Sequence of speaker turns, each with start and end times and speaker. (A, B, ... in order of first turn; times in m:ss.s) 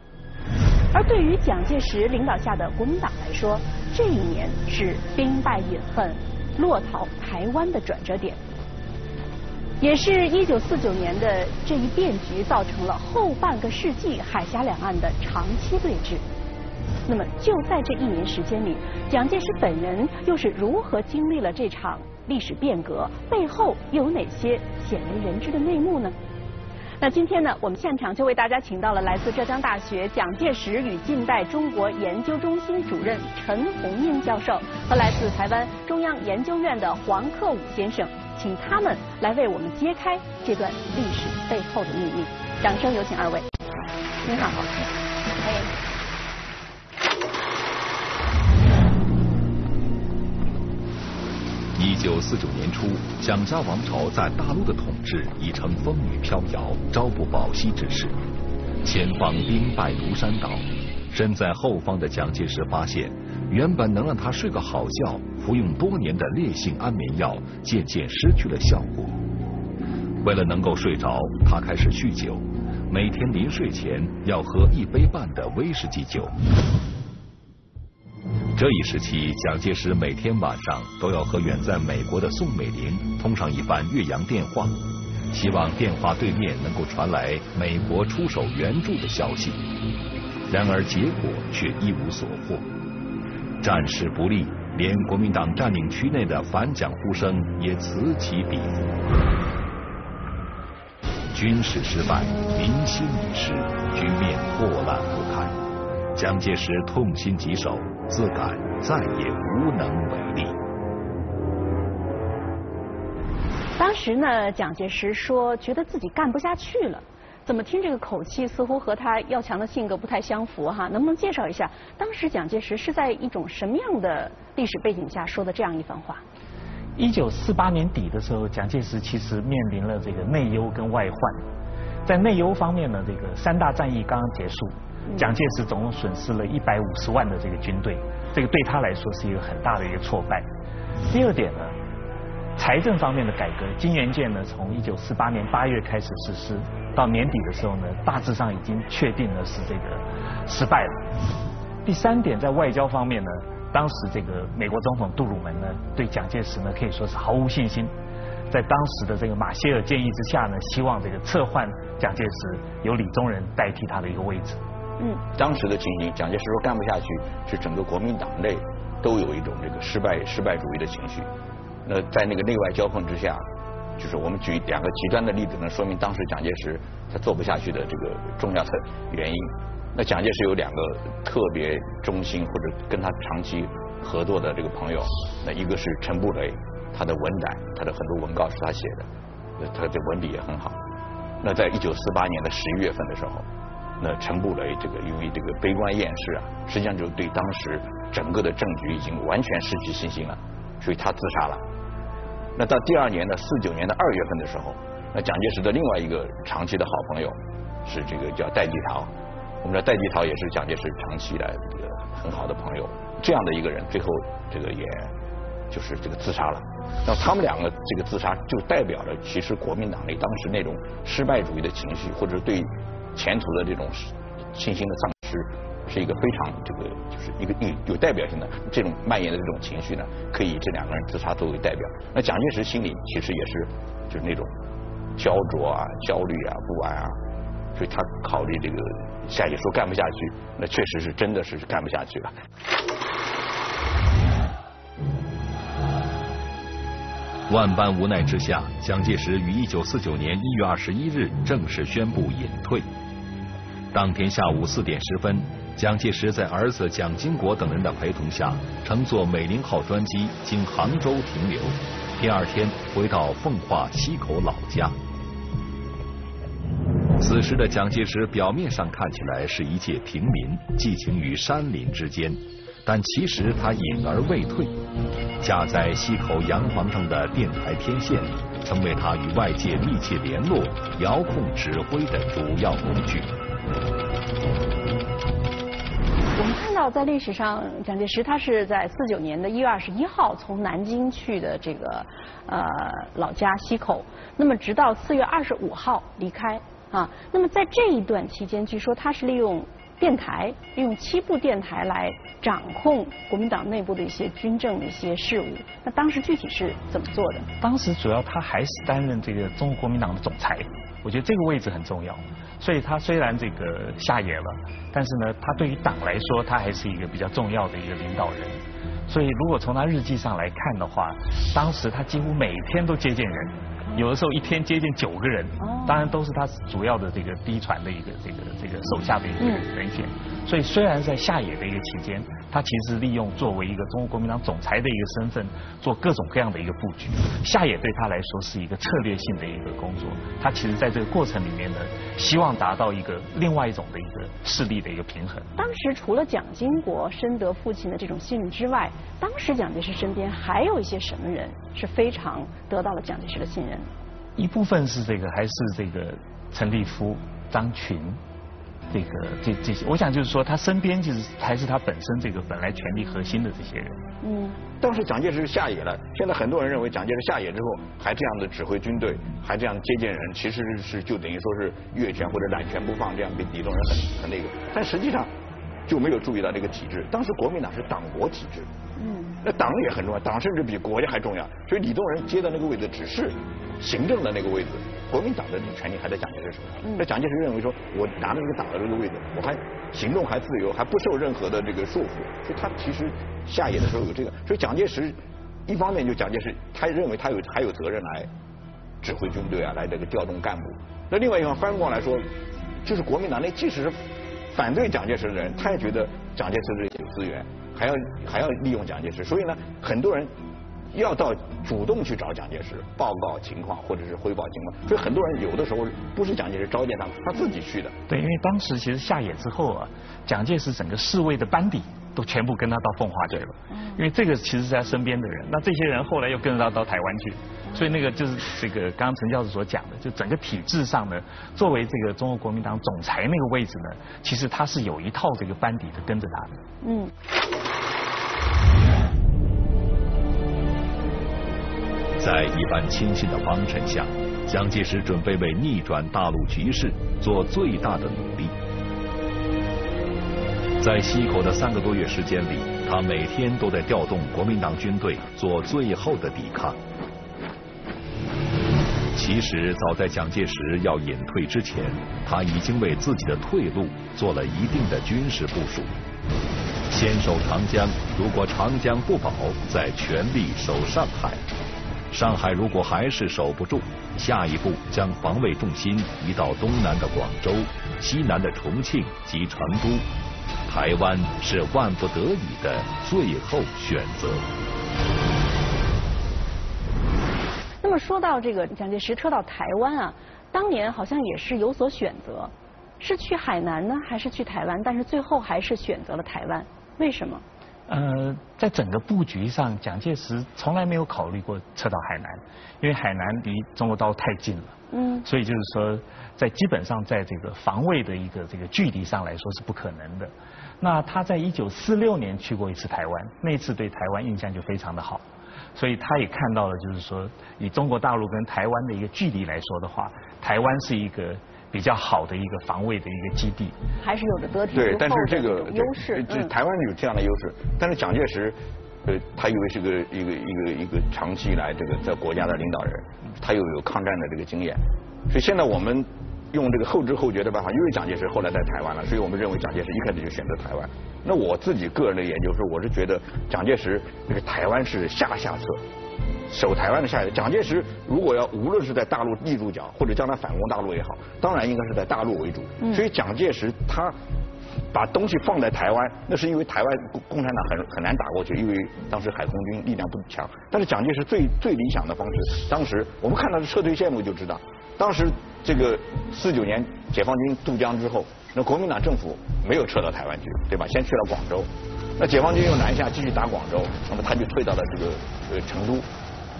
0:00.9-0:08.4 A
0:09.8-0:16.2 A
0:17.0-0:26.2 A
0:27.0-0:43.5 A
0:44.2-0:44.6 A
0:44.2-0:44.9 B
0:45.4-0:45.7 A
0:51.8-0:58.2 C
0:58.8-1:09.2 C
1:10.2-1:16.4 C
1:18.5-1:24.8 C
1:25.3-1:29.6 C
1:30.5-1:32.7 C
1:33.6-1:38.9 C
1:41.3-1:45.6 C
1:46.1-1:50.6 C
1:53.8-2:06.2 A
2:07.0-2:11.4 D
2:12.0-2:20.5 D
2:21.0-2:21.7 D
2:22.6-2:31.1 D
2:31.8-2:37.9 D
2:38.5-2:44.6 D
2:45.3-2:51.3 B
2:51.8-2:53.4 B
2:54.0-3:09.1 B
3:09.6-3:10.8 B
3:11.4-3:13.4 B
3:14.0-3:21.6 B
3:22.6-3:29.1 B
3:29.6-3:35.1 B
3:35.7-3:54.5 B
3:55.2-3:57.2 B
3:57.7-4:02.3 B
4:07.5-4:12.8 C
4:13.9-4:25.0 C
4:27.2-4:34.8 C
4:35.4-4:43.3 C
4:46.4-5:07.5 A
5:07.6-5:45.5 D
5:25.6-5:26.0 A
5:45.6-5:53.9 A
5:54.4-5:58.2 D
5:58.9-6:04.0 D
6:04.2-6:04.6 A
6:04.8-6:15.3 B
6:15.9-6:18.7 B
6:19.0-6:19.4 A
6:19.4-6:38.3 B
6:39.0-6:42.3 B
6:42.8-6:44.0 B
6:44.5-6:50.3 B
6:50.9-6:57.9 B
6:58.1-7:16.6 D
7:16.8-7:17.1 A
7:22.2-7:28.5 C
7:30.8-7:36.8 C
7:39.1-7:45.9 C
7:46.9-7:51.4 C
7:52.1-8:00.0 C
8:00.6-8:04.5 C
8:07.8-8:17.4 A
8:17.9-8:43.8 D
8:24.9-8:25.2 A
8:44.0-8:46.5 A
8:44.7-9:05.8 B
9:06.5-9:14.2 B
9:14.9-9:36.1 B